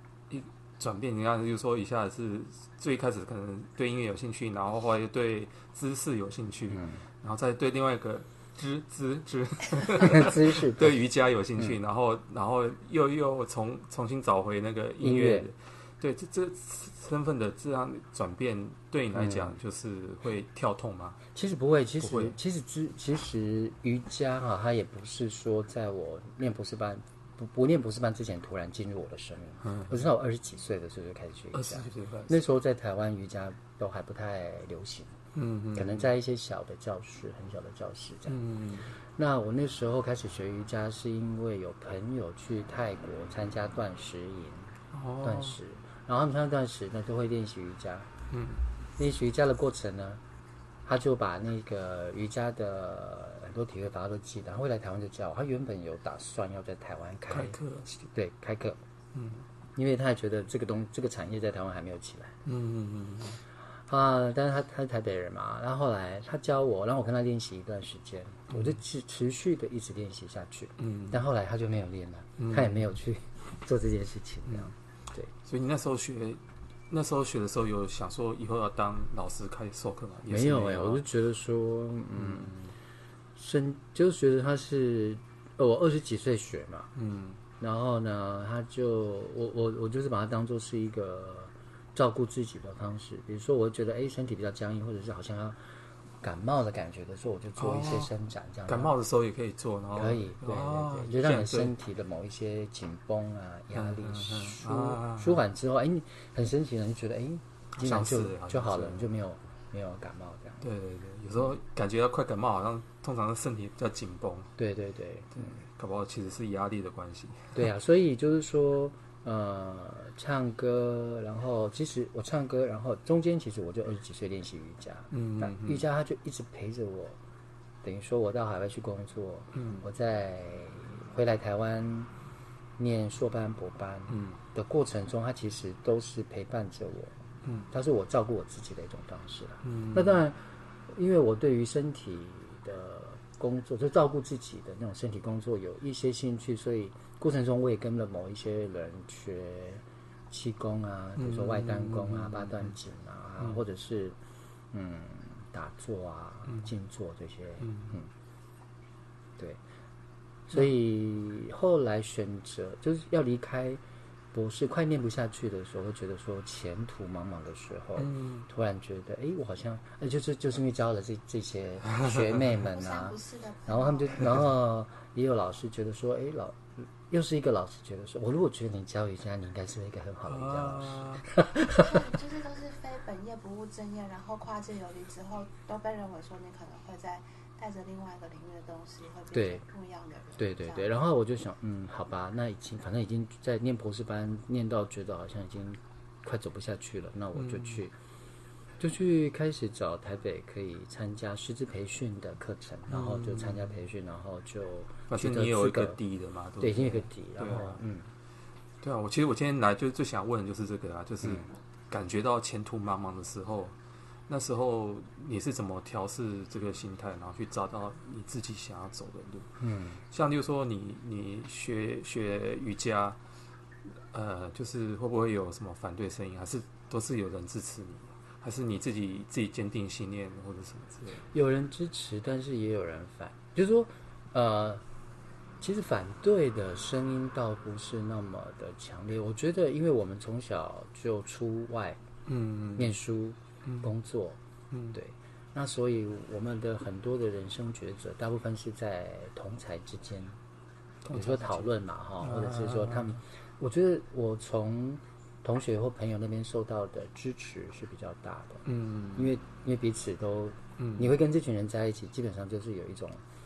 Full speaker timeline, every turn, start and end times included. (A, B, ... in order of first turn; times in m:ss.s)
0:00.3-0:21.2 A
0:06.7-0:07.0 B
0:09.9-0:11.0 B
0:15.0-0:15.5 B
0:19.1-0:19.6 B
0:21.3-0:35.2 B
0:22.0-0:22.4 A
0:29.6-0:29.9 A
0:31.5-0:32.4 A
0:35.3-0:36.1 A
0:35.7-0:38.4 B
0:38.3-0:38.9 A
0:39.1-0:44.7 B
0:44.9-0:45.6 A
0:45.2-0:48.1 B
0:48.3-0:48.6 A
0:49.0-0:50.2 B
0:50.8-0:58.8 B
0:57.3-0:57.9 A
0:59.1-0:59.4 A
0:59.8-1:02.4 B
1:02.4-1:03.4 A
1:03.9-1:15.3 B
1:08.5-1:08.8 A
1:10.8-1:11.2 A
1:12.4-1:12.9 A
1:15.4-1:21.0 A
1:20.3-1:22.5 B
1:22.2-1:22.7 A
1:23.4-1:26.9 B
1:27.0-1:27.4 A
1:27.6-1:35.6 B
1:36.2-1:38.9 B
1:37.6-1:38.1 A
1:38.7-1:41.7 A
1:40.0-1:50.6 B
1:43.8-1:45.4 A
1:47.7-1:49.1 A
1:50.6-1:54.5 A
1:54.6-1:55.5 B
1:55.4-1:57.6 A
1:57.5-2:07.2 B
2:05.1-2:05.8 A
2:07.8-2:12.1 B
2:09.5-2:09.8 A
2:12.8-2:17.2 B
2:14.1-2:14.4 A
2:17.7-2:34.2 B
2:19.6-2:20.2 A
2:31.2-2:32.7 A
2:34.7-2:38.1 B
2:37.6-2:38.0 A
2:40.5-2:43.8 B
2:44.3-3:02.0 B
2:48.0-2:48.5 A
2:52.7-2:54.2 C
3:00.3-3:01.3 A
3:01.7-3:10.9 C
3:09.3-3:09.6 B
3:10.4-3:17.9 B
3:17.3-3:17.8 A
3:18.8-3:26.0 B
3:22.9-3:23.7 A
3:25.1-3:27.8 A
3:26.6-3:28.1 B
3:28.8-3:33.7 A
3:34.3-3:39.6 A
3:39.6-3:40.0 B
3:40.1-3:43.2 A
3:44.1-3:51.2 A
3:51.3-3:54.8 B
3:55.6-4:02.0 B
4:02.3-4:03.0 A
4:02.8-4:04.4 B
4:04.7-4:05.0 A
4:04.9-4:10.4 B
4:11.0-4:13.2 A
4:11.1-4:23.2 B
4:18.7-4:19.3 A
4:20.8-4:21.1 A